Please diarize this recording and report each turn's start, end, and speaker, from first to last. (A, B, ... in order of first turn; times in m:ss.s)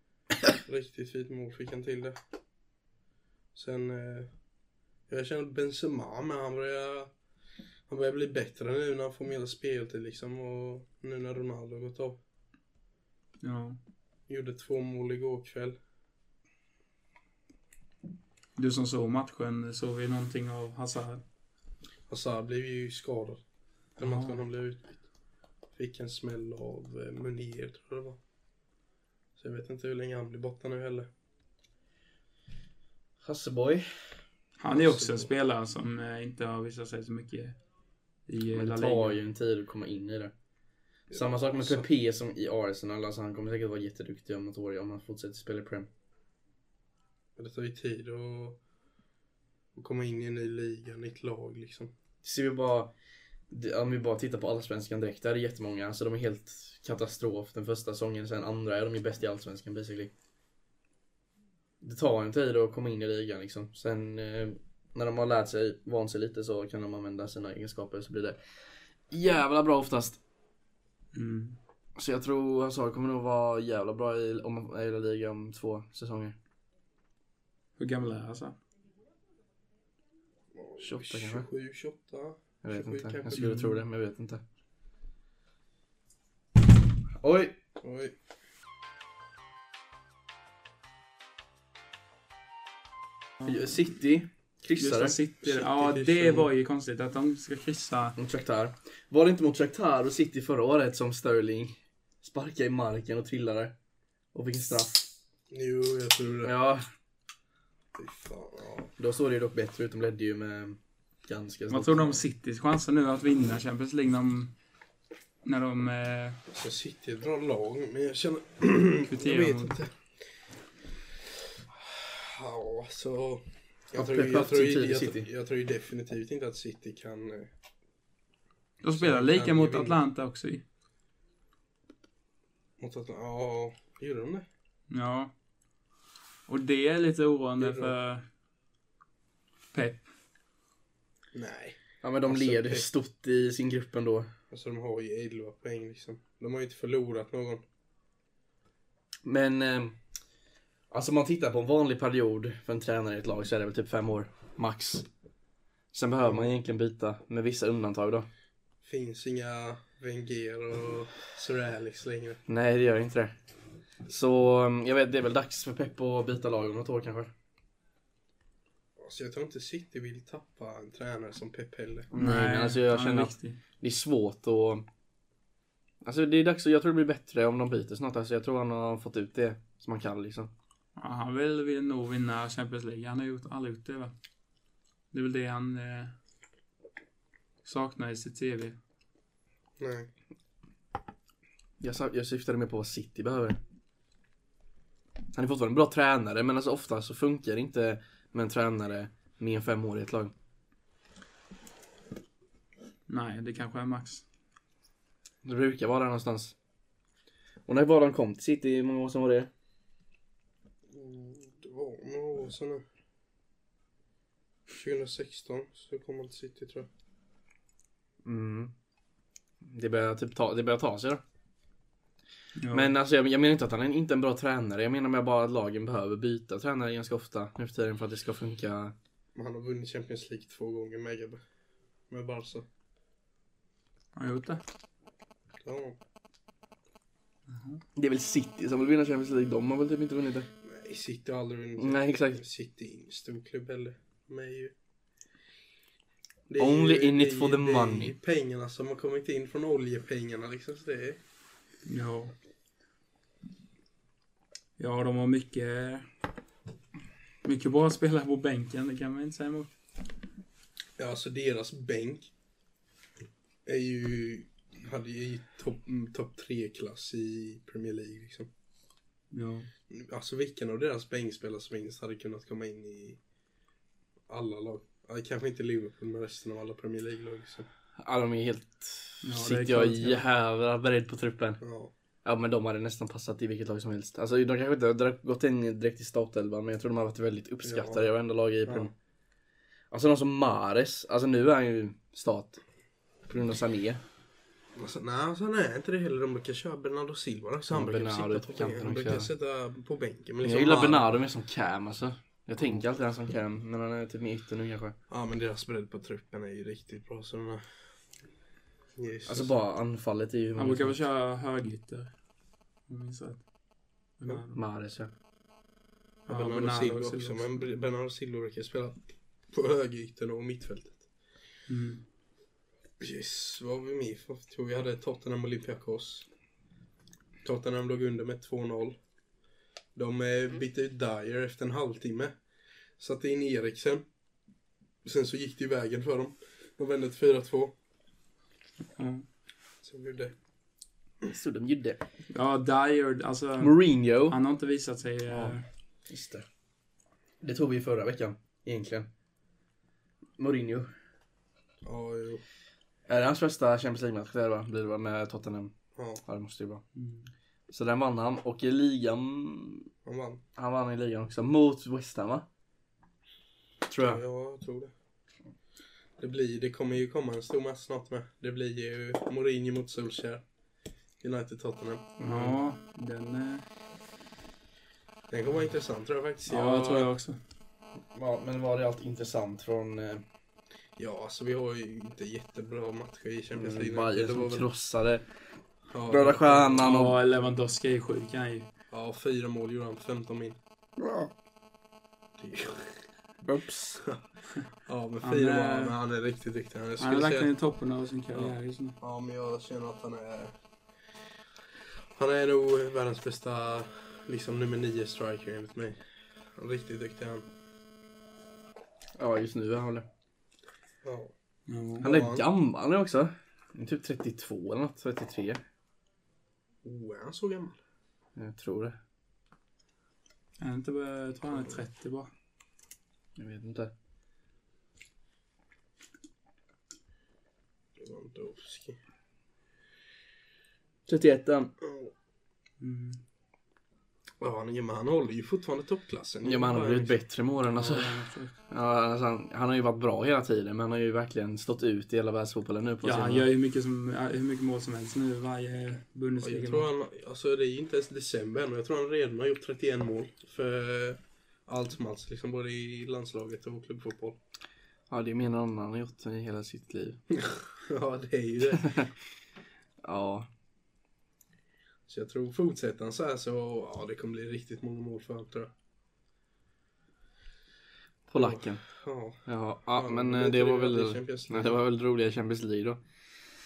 0:00.6-0:02.2 A
0:03.6-0:04.3 A
0:05.1-0:07.1 A
0:07.9-0:12.2 A
0:13.4-0:13.8 B
0:14.3-0:15.8 A
0:18.6-0:21.2 B
0:22.1-0:23.4 A
0:24.0-0:25.0 A
0:24.0-0:24.4 B
0:25.8-0:28.2 A
0:29.4-0:31.1 A
0:33.2-0:33.9 C
0:34.6-0:37.6 B
0:34.7-0:35.3 A
0:38.3-0:39.2 B
0:38.5-0:40.3 C
0:41.1-0:41.9 A
0:41.1-0:45.9 C
0:47.4-0:48.6 A
0:49.8-0:51.9 A
0:52.2-0:52.9 C
0:53.5-1:00.1 C
1:01.8-1:08.4 C
1:09.1-1:10.2 C
1:11.1-1:11.6 B
1:12.0-1:16.4 C
1:17.8-1:18.6 B
1:20.6-1:23.5 A
1:20.8-1:21.5 C
1:22.6-1:24.4 C
1:23.4-1:23.8 B
1:27.2-1:27.6 C
1:27.8-1:28.1 A
1:33.4-1:35.2 C
1:34.8-1:38.2 B
1:35.4-1:36.5 A
1:38.2-1:43.7 C
1:44.3-1:45.1 C
1:45.5-1:46.5 A
1:46.4-1:46.9 C
1:48.0-1:48.9 A
1:49.0-1:52.2 C
1:51.7-1:54.5 B
1:55.4-1:56.4 B
1:56.5-1:59.9 A
1:59.1-1:59.8 B
2:01.8-2:07.5 A
2:04.0-2:05.3 C
2:08.8-2:10.6 B
2:09.0-2:10.0 A
2:12.8-2:14.5 A
2:14.9-2:15.3 B
2:16.5-2:18.2 B
2:17.6-2:18.0 A
2:19.7-2:20.0 B
2:21.3-2:22.9 A
2:22.0-2:24.3 C
2:24.5-2:27.6 A
2:29.2-2:30.0 C
2:30.9-2:35.1 C
2:35.9-2:38.3 C
2:36.2-2:36.5 A
2:38.8-2:42.4 A
2:42.5-2:43.3 C
2:44.1-2:47.3 C
2:49.0-2:52.1 A
2:52.1-2:54.8 C
2:52.2-2:53.6 B
2:56.0-3:00.5 C
3:01.0-3:04.1 B
3:05.1-3:06.1 B
3:07.6-3:08.8 B
3:09.8-3:10.1 A
3:11.8-3:13.6 C
3:15.3-3:20.3 C
3:23.1-3:24.2 B
3:25.4-3:26.6 C
3:27.7-3:29.5 C
3:30.9-3:32.8 A
3:34.7-3:36.9 A
3:38.2-3:38.7 C
3:39.6-3:41.2 C
3:42.6-3:42.9 B
3:42.7-3:49.0 C
3:49.4-3:51.4 A
3:52.1-3:52.7 A
3:54.2-3:54.6 B
3:55.6-3:56.0 A
3:57.5-3:57.8 B
3:58.0-4:00.5 C
4:00.6-4:04.7 A
4:01.8-4:02.4 C
4:06.5-4:11.2 A
4:06.6-4:08.2 C
4:11.9-4:12.3 B
4:14.8-4:16.1 B
4:17.4-4:19.7 B
4:21.0-4:22.3 A
4:23.7-4:28.5 A
4:29.3-4:29.7 B
4:29.9-4:33.2 A
4:34.3-4:37.7 A
4:38.0-4:41.6 C
4:39.2-4:40.2 B
4:41.6-4:41.9 A
4:42.2-4:48.9 C
4:47.6-4:48.1 A
4:48.6-4:48.9 A
4:49.9-4:52.6 C
4:53.3-4:54.0 C
4:54.8-5:01.1 A
4:57.7-4:59.3 C
5:00.4-5:05.0 C
5:05.1-5:07.6 A
5:09.0-5:09.5 A
5:09.3-5:11.0 C
5:10.6-5:12.1 B
5:12.9-5:13.4 B
5:14.2-5:14.6 B
5:14.5-5:15.1 C
5:16.3-5:17.6 B
5:16.3-5:21.0 A
5:21.7-5:22.0 B
5:23.0-5:26.3 A
5:27.4-5:29.0 A
5:30.0-5:32.4 A
5:33.0-5:34.0 A
5:35.0-5:37.7 A
5:39.0-5:39.2 B
5:39.8-5:40.3 A
5:41.3-5:42.0 C
5:42.3-5:43.8 B
5:43.6-5:44.4 C
5:44.3-5:45.6 B
5:45.3-5:45.6 C
5:46.1-5:46.4 C
5:47.4-5:49.1 C
5:50.4-5:50.9 C
5:51.8-5:52.4 A
5:53.1-5:55.7 C
5:56.0-5:56.2 A
5:56.3-5:56.8 C
5:57.0-5:57.3 B
5:57.7-5:59.9 C
6:00.0-6:00.4 A
6:00.6-6:02.5 C
6:03.9-6:04.2 C
6:04.0-6:04.9 A
6:06.2-6:10.4 A
6:11.2-6:12.2 A
6:12.2-6:12.6 C
6:12.2-6:13.7 B
6:15.3-6:17.1 A
6:16.5-6:17.4 B
6:18.1-6:20.2 C
6:21.0-6:24.7 A
6:23.5-6:25.2 C
6:25.9-6:26.9 A
6:26.1-6:27.2 C
6:26.8-6:28.7 B
6:28.9-6:30.6 A
6:31.0-6:31.3 C
6:32.4-6:33.0 A
6:33.4-6:34.0 C
6:34.9-6:37.5 A
6:35.2-6:36.0 B
6:37.0-6:39.0 B
6:38.3-6:40.5 A
6:42.2-6:46.0 A
6:46.6-6:47.5 A
6:49.2-6:50.1 C
6:51.0-6:51.3 A
6:51.7-6:52.1 B
6:52.0-6:52.5 A
6:52.0-6:55.6 C
6:56.8-6:57.8 A
6:58.4-6:59.0 C
7:00.6-7:02.3 B
7:03.4-7:03.9 C
7:08.0-7:09.0 A
7:11.1-7:11.7 C
7:11.8-7:12.1 A
7:12.8-7:13.2 B
7:14.4-7:17.2 A
7:16.4-7:23.5 C
7:17.6-7:18.6 B
7:23.0-7:26.9 B
7:26.4-7:34.4 A
7:35.1-7:37.2 C
7:37.3-7:39.0 A
7:38.7-7:39.1 C
7:40.0-7:40.5 C
7:42.1-7:45.7 A
7:48.3-7:48.8 C
7:48.3-7:51.8 A
7:49.5-7:53.0 C